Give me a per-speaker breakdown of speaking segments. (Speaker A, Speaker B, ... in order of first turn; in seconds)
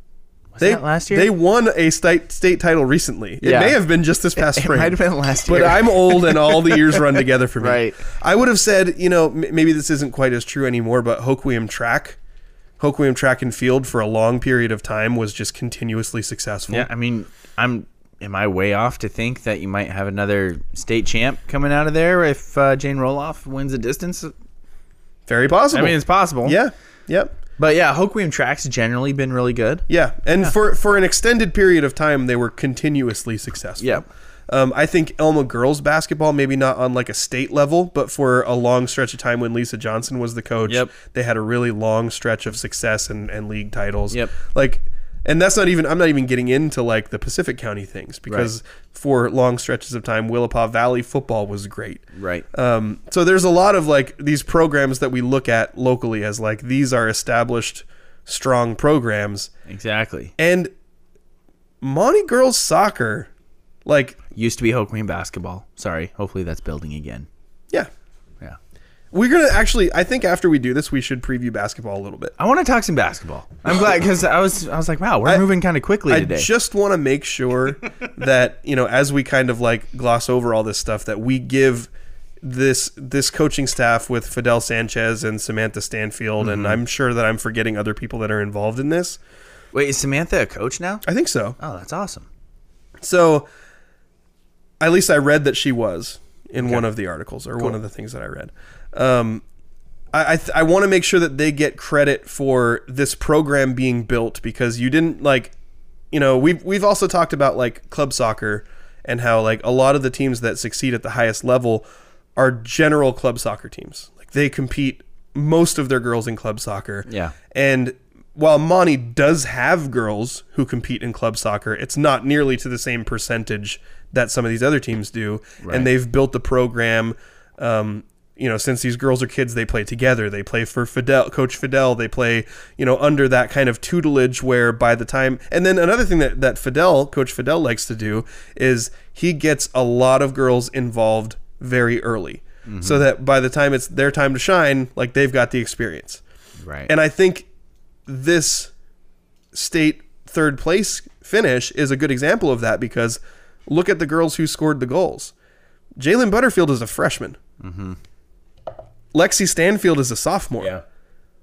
Speaker A: 0.5-1.3, 3.4-3.8, 4.3-8.0, 16.7-24.3, 25.7-26.6, 27.6-29.9, 33.8-34.0, 40.6-40.9, 48.3-48.5, 52.1-52.5, 59.7-60.3, 64.3-67.3, 72.4-76.5, 86.4-86.8, 89.7-91.0, 91.6-92.3, 96.6-96.8, 117.1-117.3, 125.6-125.9, 142.7-143.1, 146.6-146.9, 157.6-158.0
Speaker B: 0.6-12.2, 12.8-16.9, 25.3-27.3, 29.9-59.5, 60.4-60.7, 61.8-63.3, 63.9-64.2, 69.1-72.3, 76.1-81.9, 82.4-89.2, 91.0-91.6, 93.0-93.5, 94.8-99.4, 100.1-105.5, 106.1-146.2, 146.9-147.4, 148.1-148.7, 149.5-155.3, 156.0-157.4, 159.1-160.7